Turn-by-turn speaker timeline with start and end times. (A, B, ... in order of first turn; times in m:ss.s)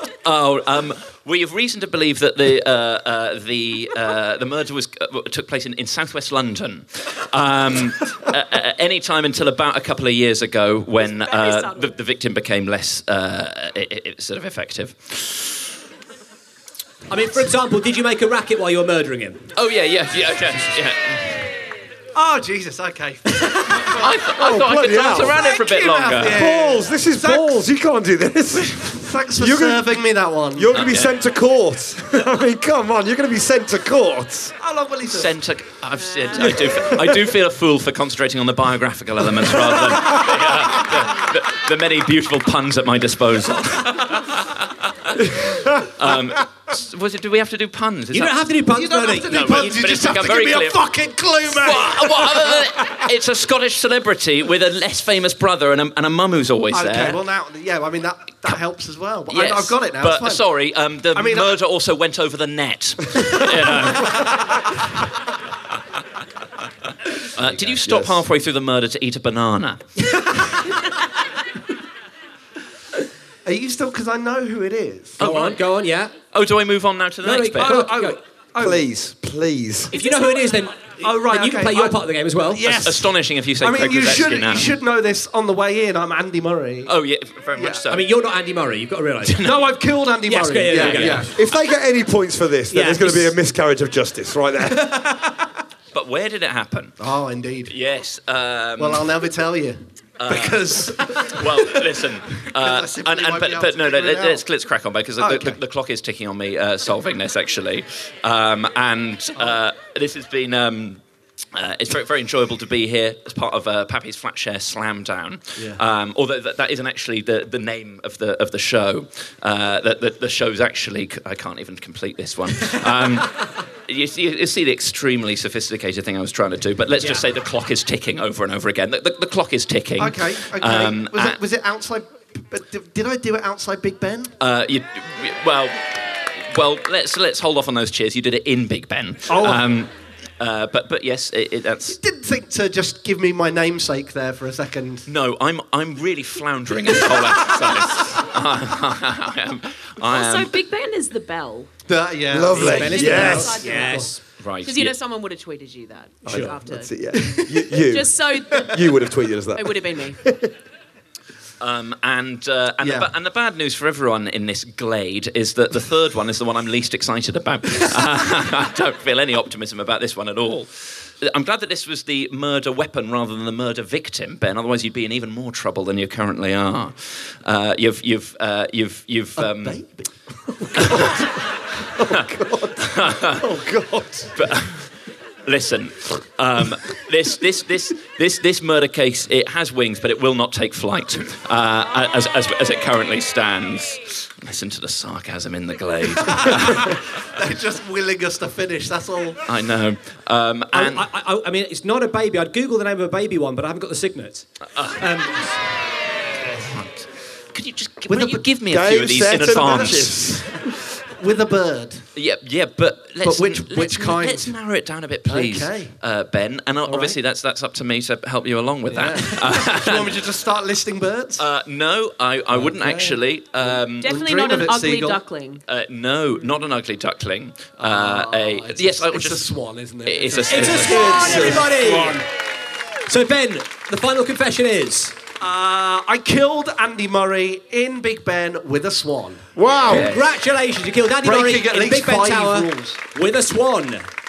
0:00.2-0:15.6 A
0:11.0-0:11.9 B
0:17.1-0:19.4 C
0:19.5-0:21.4 A
0:22.1-0:24.0 D
0:23.8-0:26.4 A
0:24.3-0:25.4 E
0:25.2-0:27.5 D
0:26.3-0:29.9 E
0:28.9-0:30.7 D
0:30.5-0:34.5 E
0:30.7-0:31.1 A
0:34.6-0:35.3 D
0:35.1-0:48.5 A
0:36.2-0:36.6 B
0:48.1-0:49.7 C
0:48.7-0:52.6 D
0:49.2-0:50.9 A
0:51.4-0:57.2 A
0:56.7-1:00.4 D
0:59.3-1:04.6 A
1:01.1-1:01.6 D
1:04.0-1:04.3 D
1:07.3-1:09.9 A
1:07.9-1:08.1 E
1:13.4-1:15.2 D
1:15.2-1:15.6 A
1:15.2-1:16.1 C
1:16.3-1:17.8 A
1:17.2-1:18.2 C
1:17.6-1:18.8 D
1:18.6-1:19.9 E
1:19.9-1:20.5 B
1:19.9-1:22.6 C
1:21.0-1:26.9 D
1:22.6-1:24.8 A
1:26.9-1:28.1 A
1:27.5-1:27.8 D
1:27.9-1:29.4 C
1:29.3-1:29.6 A
1:29.4-1:31.4 D
1:30.3-1:31.3 C
1:30.7-1:31.2 A
1:31.3-1:35.0 E
1:32.7-1:33.4 C
1:34.9-1:35.2 D
1:35.9-1:37.0 A
1:37.0-1:37.7 D
1:37.7-1:39.1 A
1:38.8-1:41.8 D
1:40.2-1:51.0 A
1:42.4-1:44.4 D
1:45.2-1:45.6 D
1:51.5-2:11.4 A
2:10.0-2:14.3 D
2:14.4-2:22.0 A
2:19.3-2:19.6 D
2:21.9-2:25.0 D
2:25.1-2:30.5 A
2:30.0-2:31.7 B
2:31.9-2:34.2 D
2:32.3-2:33.6 E
2:32.5-2:34.2 C
2:32.7-2:36.9 B
2:34.4-2:34.9 A
2:36.2-2:40.5 E
2:37.1-2:37.7 D
2:37.7-2:39.0 B
2:39.5-2:40.2 B
2:41.6-2:59.8 A
2:42.8-2:43.1 D
2:59.4-3:00.0 D
3:00.7-3:01.2 E
3:00.8-3:01.2 A
3:02.0-3:04.3 E
3:02.8-3:03.5 A
3:04.4-3:04.9 A
3:05.4-3:17.0 A
3:16.2-3:19.4 D
3:19.5-3:21.1 A
3:20.7-3:25.4 C
3:24.7-3:25.4 A
3:26.7-3:30.3 A
3:28.1-3:28.4 D
3:28.7-3:30.6 E
3:31.2-3:32.0 D
3:32.2-3:40.2 A
3:33.2-3:34.5 D
3:35.2-3:35.9 D
3:36.9-3:37.1 D
3:38.9-3:41.4 D
3:41.4-3:44.2 A
3:42.5-3:43.2 D
3:43.7-3:45.2 D
3:44.0-3:45.6 B
3:45.7-3:49.4 A
3:47.8-3:51.2 D
3:50.0-3:51.4 A
3:50.5-3:52.2 C
3:50.8-3:52.2 E
3:53.1-3:55.2 C
3:55.4-3:59.4 D
3:59.6-4:00.1 E
3:59.9-4:00.2 A
3:59.9-4:04.0 C
4:01.2-4:03.0 D